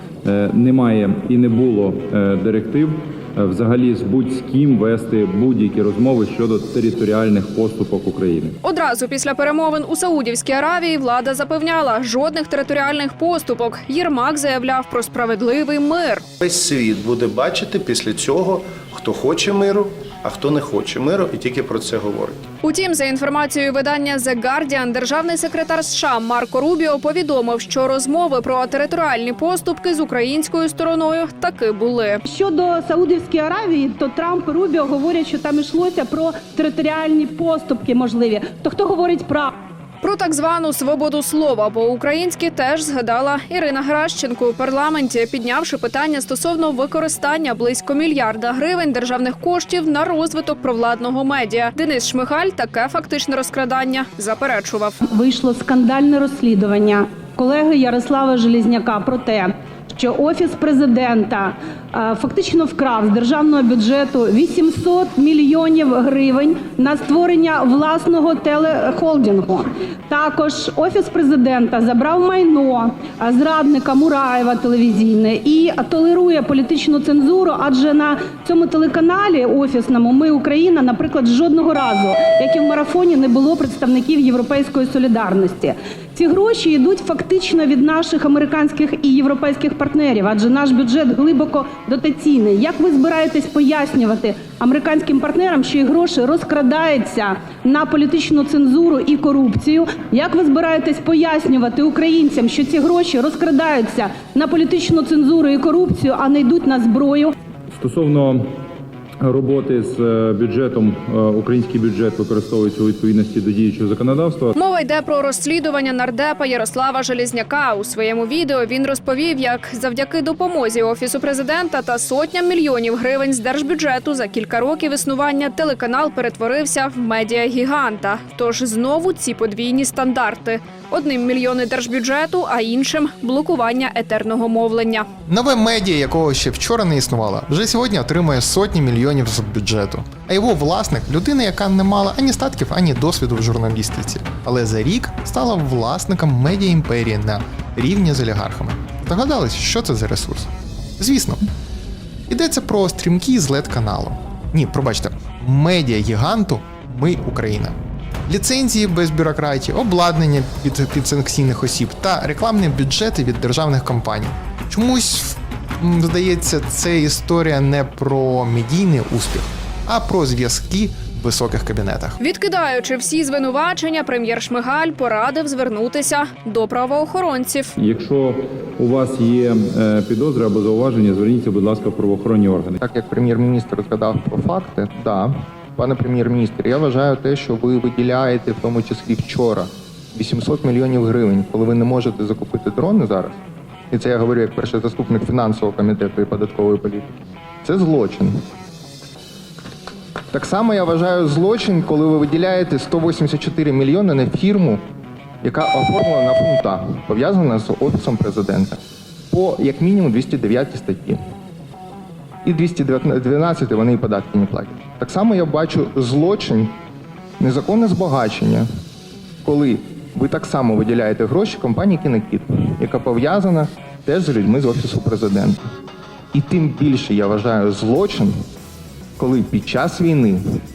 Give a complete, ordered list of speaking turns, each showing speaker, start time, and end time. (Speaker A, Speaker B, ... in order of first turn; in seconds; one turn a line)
Speaker A: 0.2-8.6
Speaker B: 8.6-16.2
Speaker C: 16.4-22.4
Speaker B: 22.6-32.2
Speaker D: 32.2-39.5
Speaker B: 40.0-55.0
Speaker D: 55.0-107.3
Speaker A: 107.7-108.5
Speaker A: 109.2-114.5
Speaker B: 114.5-135.1
Speaker E: 135.3-151.4
Speaker E: 152.3-157.7
Speaker E: 158.3-172.2
Speaker B: 172.2-177.7
Speaker A: 177.8-182.8
Speaker E: 182.8-198.4
Speaker E: 200.3-204.8
Speaker E: 205.4-208.8
Speaker E: 209.3-211.2
Speaker E: 212.4-216.7
Speaker E: 217.4-218.7
Speaker E: 219.4-225.6
Speaker E: 226.3-228.3
Speaker E: 229.2-230.6